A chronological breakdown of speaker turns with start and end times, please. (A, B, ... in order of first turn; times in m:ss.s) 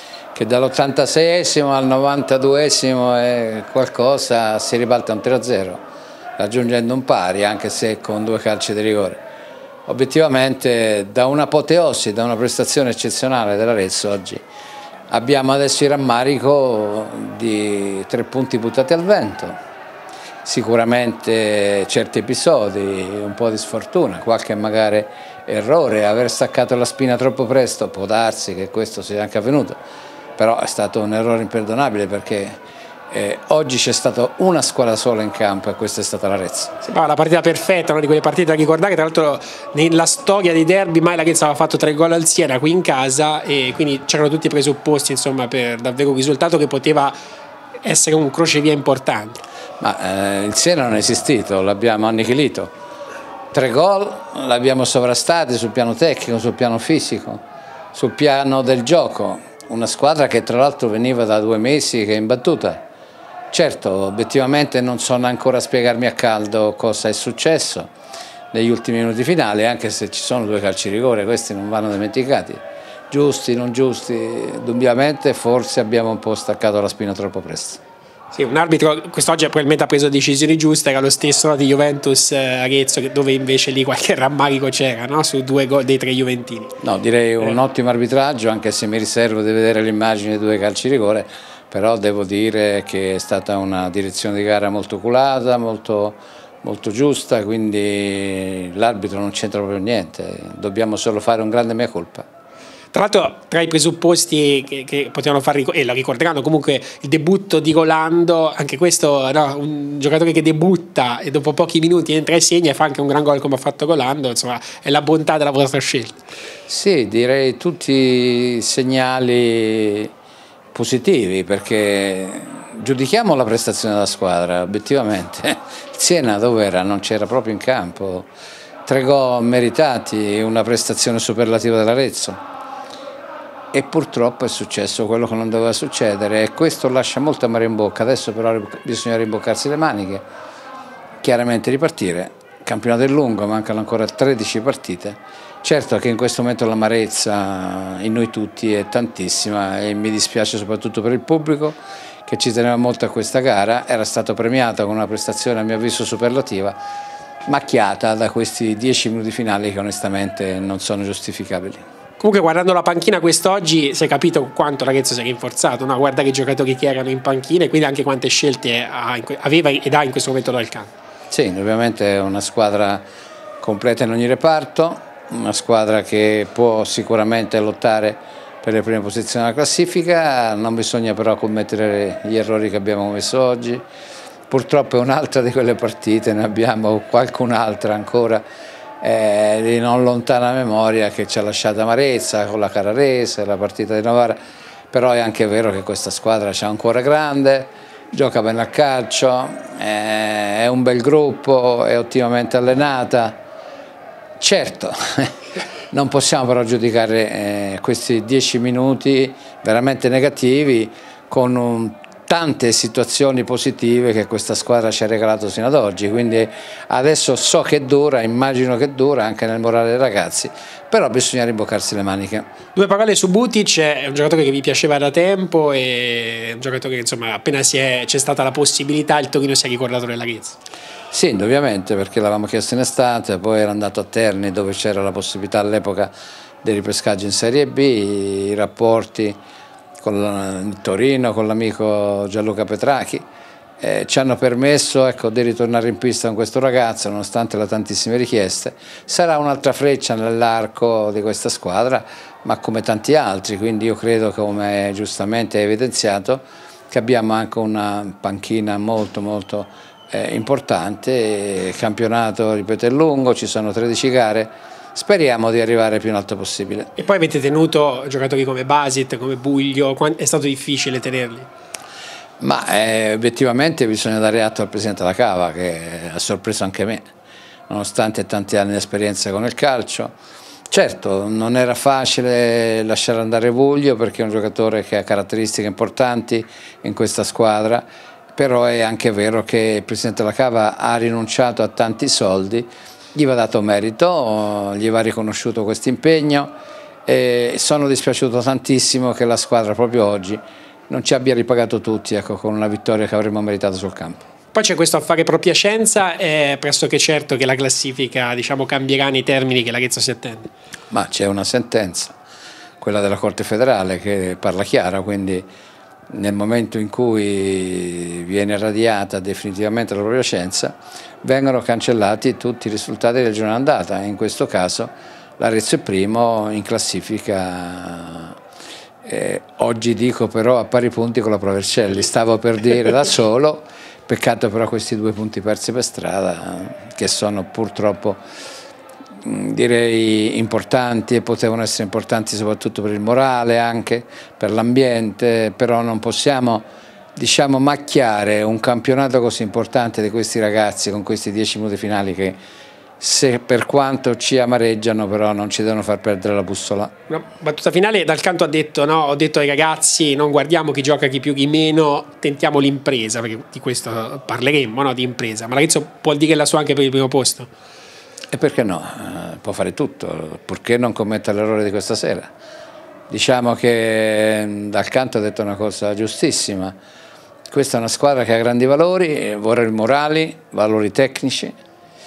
0:00.4-0:05.8 A
0:06.4-0:09.2 A
0:09.9-0:14.4 A
0:15.1-0:19.6 A
0:20.4-0:29.8 A
0:30.4-0:32.5 A
0:33.1-0:36.7 A
0:36.8-0:47.1 B
0:47.8-0:49.4 B
0:49.8-0:52.7 A
0:53.5-0:57.4 A
0:57.9-1:02.8 A
1:03.5-1:07.9 A
1:08.5-1:17.8 A
1:18.3-1:26.7 B
1:26.8-1:42.3 A
1:42.9-1:56.2 B
1:56.7-2:00.1 A
2:00.7-2:08.3 A
2:08.9-2:12.4 A
2:13.7-2:20.2 A
2:21.2-2:36.8 A
2:37.5-2:41.8 A
2:42.2-2:50.9 B
2:51.3-2:53.0 A
2:53.6-3:03.8 A
3:04.5-3:08.4 A
3:09.0-3:14.4 A
3:14.9-3:23.4 A
3:24.4-3:25.3 A
3:25.9-3:42.5 A
3:42.8-3:50.6 B
3:51.1-3:59.4 A
4:00.0-4:03.3 A
4:03.8-4:26.9 A
4:27.0-4:31.5 B
4:32.4-4:37.0 A
4:37.7-4:40.1 A
4:40.7-4:47.8 A
4:48.4-4:56.5 A
4:57.1-5:04.2 A
5:04.5-5:10.5 B
5:10.9-5:12.1 A
5:12.8-5:15.5 A
5:16.1-5:28.4 A
5:29.0-5:38.2 A
5:39.2-5:52.4 A
5:53.0-5:56.9 A
5:57.1-6:07.5 B
6:08.3-6:12.3 A
6:13.1-6:16.8 A
6:17.5-6:21.5 A